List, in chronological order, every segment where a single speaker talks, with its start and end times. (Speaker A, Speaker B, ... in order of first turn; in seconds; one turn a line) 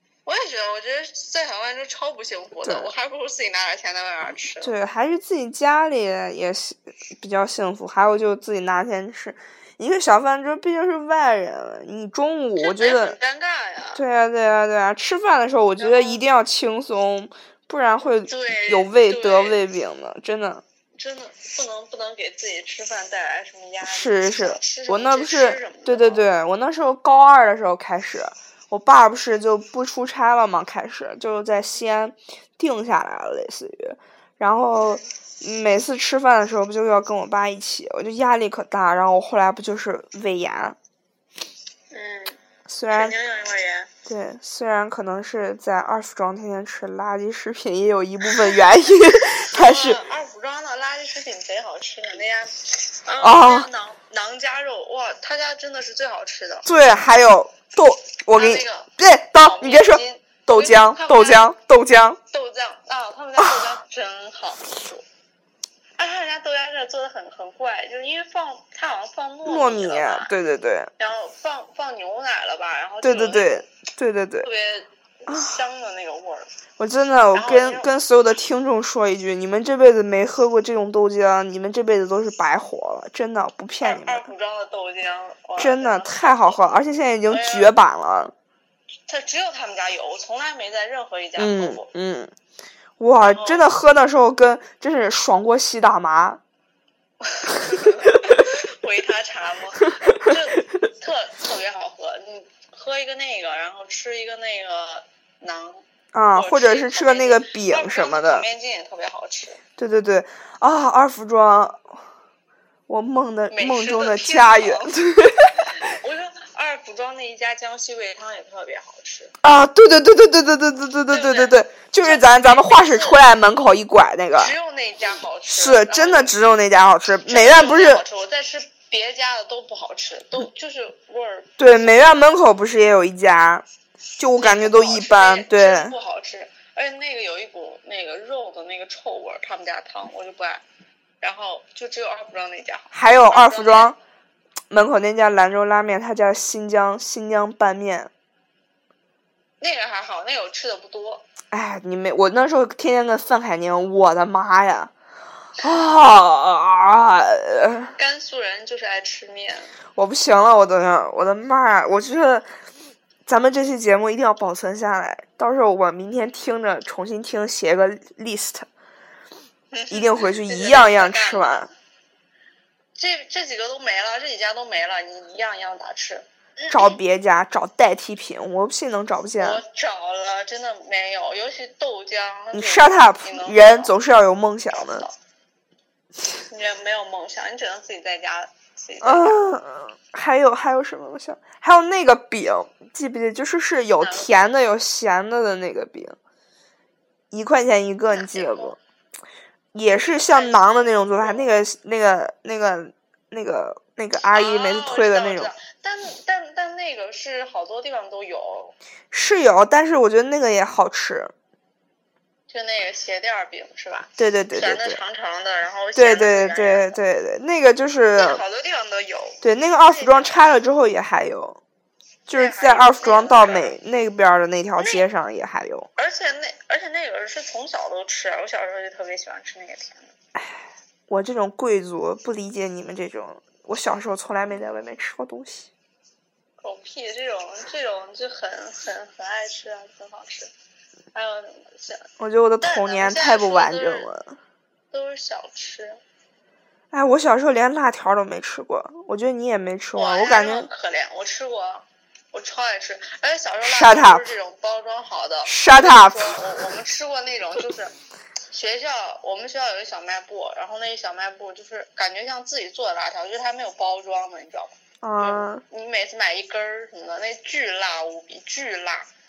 Speaker A: 0.2-4.7
Speaker B: 2.6-2.9
Speaker B: 4.6-13.2
Speaker A: 12.6-14.0
Speaker B: 13.9-20.6
Speaker A: 15.8-16.2
Speaker A: 18.3-19.6
Speaker A: 21.0-26.3
Speaker B: 23.8-40.8
Speaker A: 34.8-35.0
Speaker A: 41.9-43.9
Speaker B: 42.7-43.1
Speaker B: 44.0-50.0
Speaker A: 49.1-56.7
Speaker B: 53.2-53.7
Speaker B: 56.6-62.2
Speaker A: 58.3-61.5
Speaker A: 62.3-65.0
Speaker B: 63.4-63.7
Speaker A: 66.0-70.3
Speaker B: 69.4-70.9
Speaker A: 71.0-73.7
Speaker B: 73.0-74.5
Speaker A: 74.4-76.5
Speaker B: 75.3-75.6
Speaker B: 76.8-84.3
Speaker A: 77.3-77.9
Speaker A: 83.8-86.6
Speaker B: 85.6-88.3
Speaker A: 87.3-87.7
Speaker A: 89.1-91.9
Speaker B: 91.3-92.3
Speaker B: 93.0-96.4
Speaker A: 93.2-93.6
Speaker A: 97.2-105.8
Speaker B: 98.0-98.4
Speaker B: 100.1-100.3
Speaker B: 106.1-108.5
Speaker A: 106.3-109.6
Speaker B: 109.8-111.9
Speaker B: 112.9-115.8
Speaker A: 113.5-119.3
Speaker B: 119.4-124.5
Speaker A: 121.1-123.2
Speaker A: 124.3-126.3
Speaker B: 125.5-128.0
Speaker A: 127.3-132.2
Speaker B: 131.6-133.6
Speaker B: 134.2-135.9
Speaker A: 134.4-140.6
Speaker A: 141.2-143.9
Speaker B: 142.9-144.0
Speaker B: 144.7-148.1
Speaker A: 149.6-151.2
Speaker B: 151.5-154.9
Speaker B: 155.6-157.9
Speaker A: 158.0-159.8
Speaker B: 159.9-162.5
Speaker B: 163.2-168.7
Speaker A: 169.7-171.7
Speaker B: 169.9-171.7
Speaker A: 172.9-177.0
Speaker B: 176.7-179.6
Speaker A: 179.4-183.9
Speaker B: 182.5-185.1
Speaker A: 184.8-185.1
Speaker A: 186.5-189.6
Speaker B: 189.0-196.2
Speaker A: 194.0-194.3
Speaker B: 197.3-198.8
Speaker A: 198.1-198.8
Speaker B: 199.7-205.5
Speaker A: 199.9-201.6
Speaker A: 204.3-208.8
Speaker B: 209.1-211.3
Speaker A: 212.5-217.0
Speaker B: 214.2-215.0
Speaker B: 215.9-218.4
Speaker A: 218.1-220.4
Speaker B: 219.4-221.6
Speaker B: 222.3-225.9
Speaker A: 222.3-223.7
Speaker A: 224.8-225.1
Speaker A: 226.0-230.1
Speaker B: 230.3-235.7
Speaker A: 236.6-240.5
Speaker A: 241.1-242.1
Speaker B: 242.2-244.4
Speaker A: 242.6-244.1
Speaker A: 244.9-246.0
Speaker B: 246.9-250.7
Speaker A: 249.9-257.9
Speaker B: 253.6-254.3
Speaker B: 255.4-256.4
Speaker A: 258.5-269.1
Speaker B: 265.0-265.6